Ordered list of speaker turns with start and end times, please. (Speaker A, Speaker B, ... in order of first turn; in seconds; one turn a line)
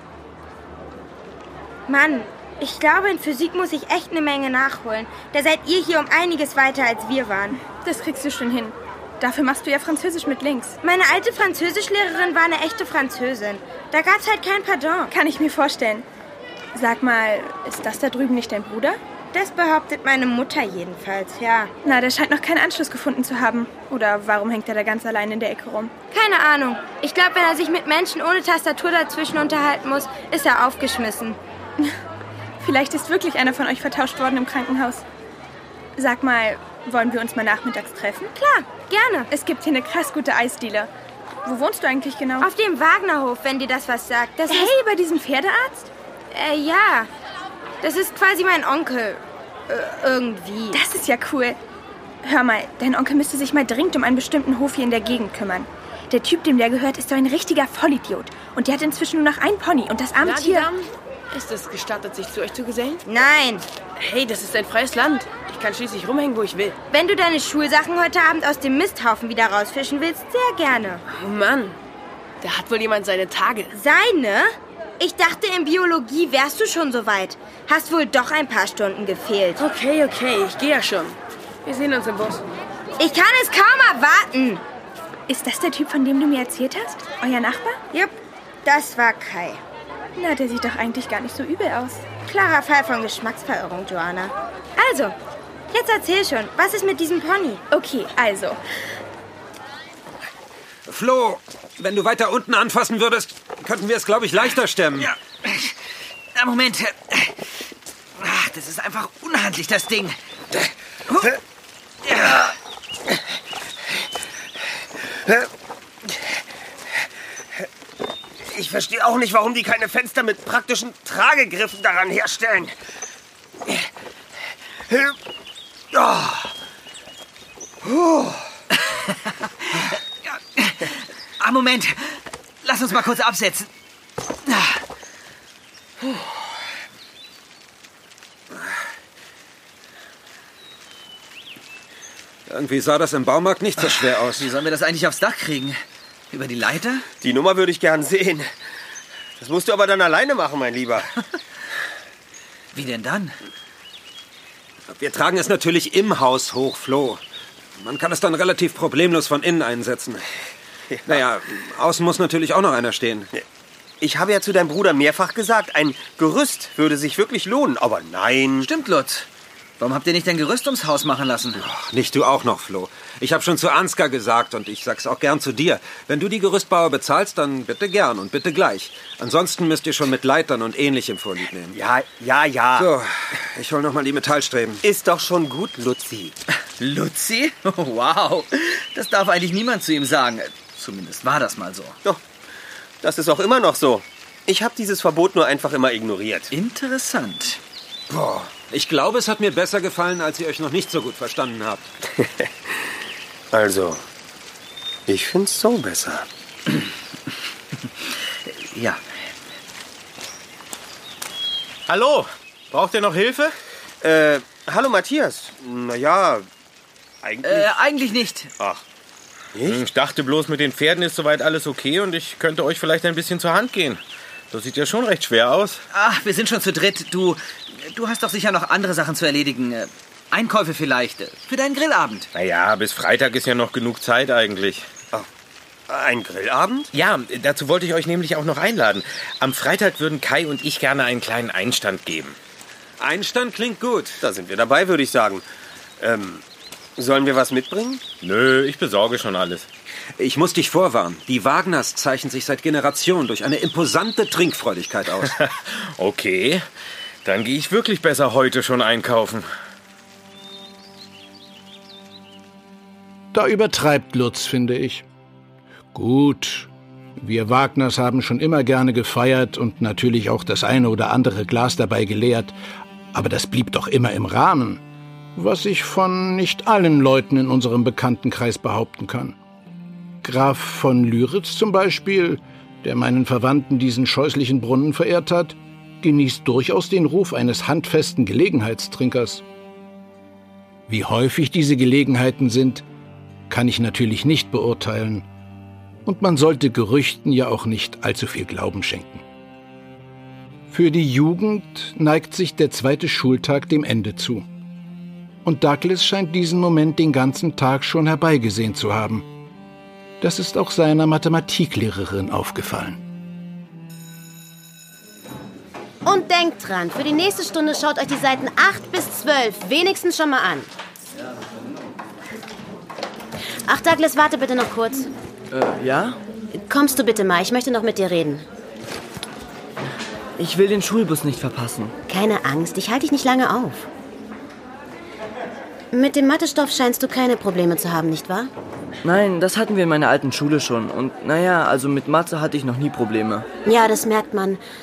Speaker A: 1.9-7.6
Speaker B: 7.7-10.8
Speaker A: 10.8-15.2
Speaker B: 15.1-16.0
Speaker B: 16.7-19.0
Speaker A: 19.3-21.7
Speaker B: 21.8-25.9
Speaker A: 26.1-31.4
Speaker B: 32.6-35.0
Speaker B: 36.0-38.3
Speaker A: 38.3-39.3
Speaker B: 39.3-40.9
Speaker B: 41.4-42.5
Speaker A: 42.4-44.8
Speaker B: 44.5-45.9
Speaker A: 46.3-47.1
Speaker A: 47.8-50.8
Speaker B: 50.7-51.6
Speaker B: 52.2-60.6
Speaker C: 60.2-63.0
Speaker A: 63.0-63.6
Speaker C: 64.0-66.8
Speaker A: 66.9-71.0
Speaker C: 71.1-71.8
Speaker C: 72.4-73.7
Speaker A: 73.7-79.7
Speaker C: 79.6-82.4
Speaker A: 83.0-84.6
Speaker B: 85.3-87.8
Speaker A: 87.9-89.6
Speaker B: 90.2-92.0
Speaker A: 92.2-95.2
Speaker A: 95.7-97.6
Speaker B: 97.7-98.6
Speaker D: 100.9-105.1
Speaker E: 105.0-105.7
Speaker E: 106.3-107.3
Speaker E: 108.2-110.2
Speaker F: 118.5-122.7
Speaker F: 125.9-126.4
Speaker F: 127.8-128.3
Speaker E: 130.2-133.7
Speaker D: 142.5-144.5
Speaker E: 143.9-145.8
Speaker E: 146.3-147.1
Speaker F: 147.2-148.5
Speaker F: 149.4-151.2
Speaker E: 152.7-153.3
Speaker D: 154.9-157.2
Speaker D: 157.8-160.3
Speaker D: 161.1-163.3
Speaker F: 164.0-168.7
Speaker E: 168.6-169.3
Speaker E: 169.8-171.6
Speaker D: 171.6-181.8
Speaker F: 181.7-182.9
Speaker D: 182.7-184.8
Speaker F: 184.8-186.3
Speaker E: 186.8-192.0
Speaker F: 193.0-196.5
Speaker E: 196.5-197.6
Speaker D: 198.1-201.9
Speaker F: 203.5-204.0
Speaker F: 205.1-206.3
Speaker E: 208.7-209.0
Speaker G: 211.9-213.5
Speaker F: 214.0-216.5
Speaker F: 217.2-217.7
Speaker E: 217.4-218.5
Speaker F: 219.5-219.8
Speaker G: 219.6-224.0
Speaker G: 224.5-225.8
Speaker E: 225.9-232.3
Speaker G: 232.3-234.9
Speaker F: 235.9-236.9
Speaker G: 236.9-242.4
Speaker D: 243.0-244.2
Speaker F: 244.2-245.4
Speaker F: 246.0-246.4
Speaker F: 247.0-248.0
Speaker G: 248.2-249.7
Speaker D: 250.2-255.3
Speaker G: 255.4-256.6
Speaker G: 257.2-259.5
Speaker H: 263.3-265.1
Speaker H: 265.9-272.5
Speaker H: 273.1-274.8
Speaker H: 275.4-279.4
Speaker H: 280.2-289.4
Speaker H: 290.9-292.8
Speaker H: 293.5-295.2
Speaker H: 296.1-299.2
Speaker H: 300.7-304.4
Speaker H: 305.4-309.2
Speaker H: 310.2-313.0
Speaker I: 316.0-320.7
Speaker I: 323.6-325.1
Speaker J: 325.5-326.1
Speaker I: 326.5-328.4
Speaker J: 330.4-331.9
Speaker I: 332.1-333.9
Speaker I: 335.9-338.5
Speaker J: 339.0-343.5
Speaker I: 343.6-344.6